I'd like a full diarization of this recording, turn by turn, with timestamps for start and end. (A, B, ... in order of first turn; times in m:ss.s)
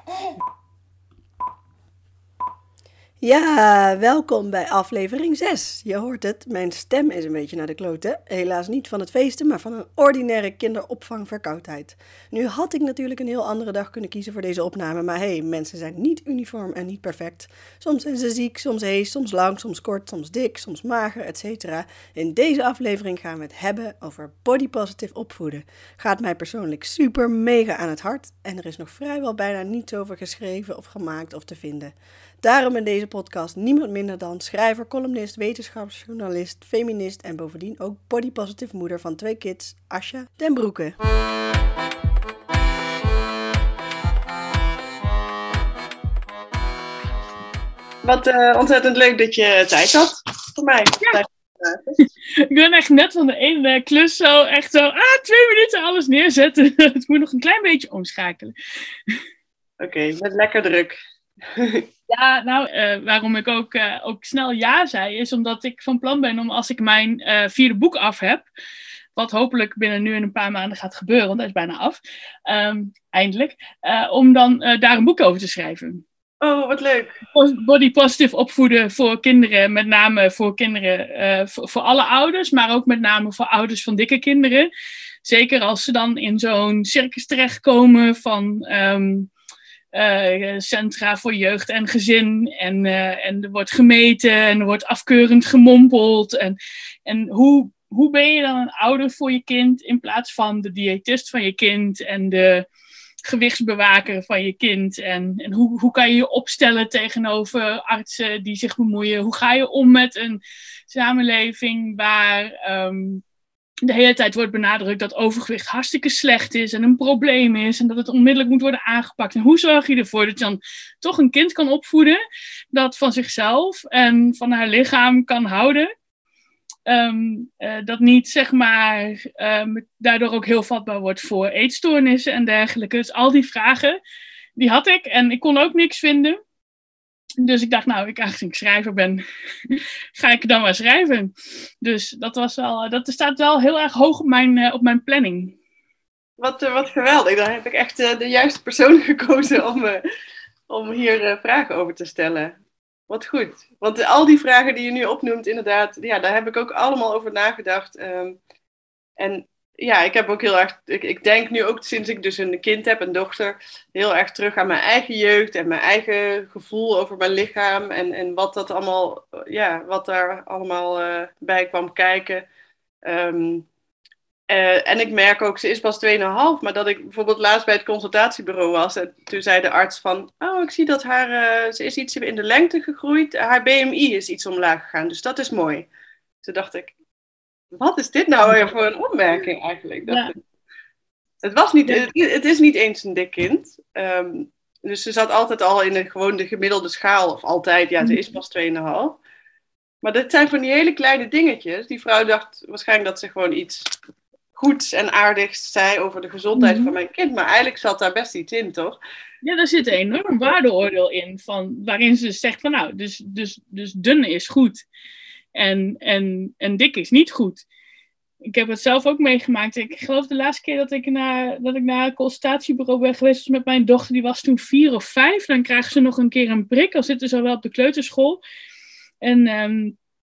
0:03.2-0:41.0 A
0:48.0-0:51.9 B
0:52.4-0:58.5 C
0:59.8-1:01.9 B
1:02.1-1:08.5 C
1:09.2-1:16.0 C
1:16.4-1:17.2 B
1:17.3-1:24.7 C
1:25.2-1:29.3 C
1:29.9-1:42.7 C
1:43.3-1:53.2 C
1:53.8-2:02.2 C
2:02.7-2:05.9 C
2:06.9-2:14.0 C
2:14.6-2:16.4 C
2:17.4-2:25.6 C
2:26.4-2:30.0 B
2:30.7-2:32.6 B
2:33.1-2:38.4 B
2:39.2-2:52.5 B
2:53.0-2:53.7 B
2:54.5-3:05.9 B
3:06.4-3:07.0 B
3:07.7-3:10.3 B
3:08.4-3:08.7 C
3:10.1-3:10.3 C
3:11.4-3:19.2 B
3:20.0-3:23.9 B
3:24.6-3:29.0 B
3:26.6-3:26.9 C
3:29.4-3:34.8 C
3:35.6-3:37.6 C
3:38.4-3:48.4 C
3:49.2-3:50.0 C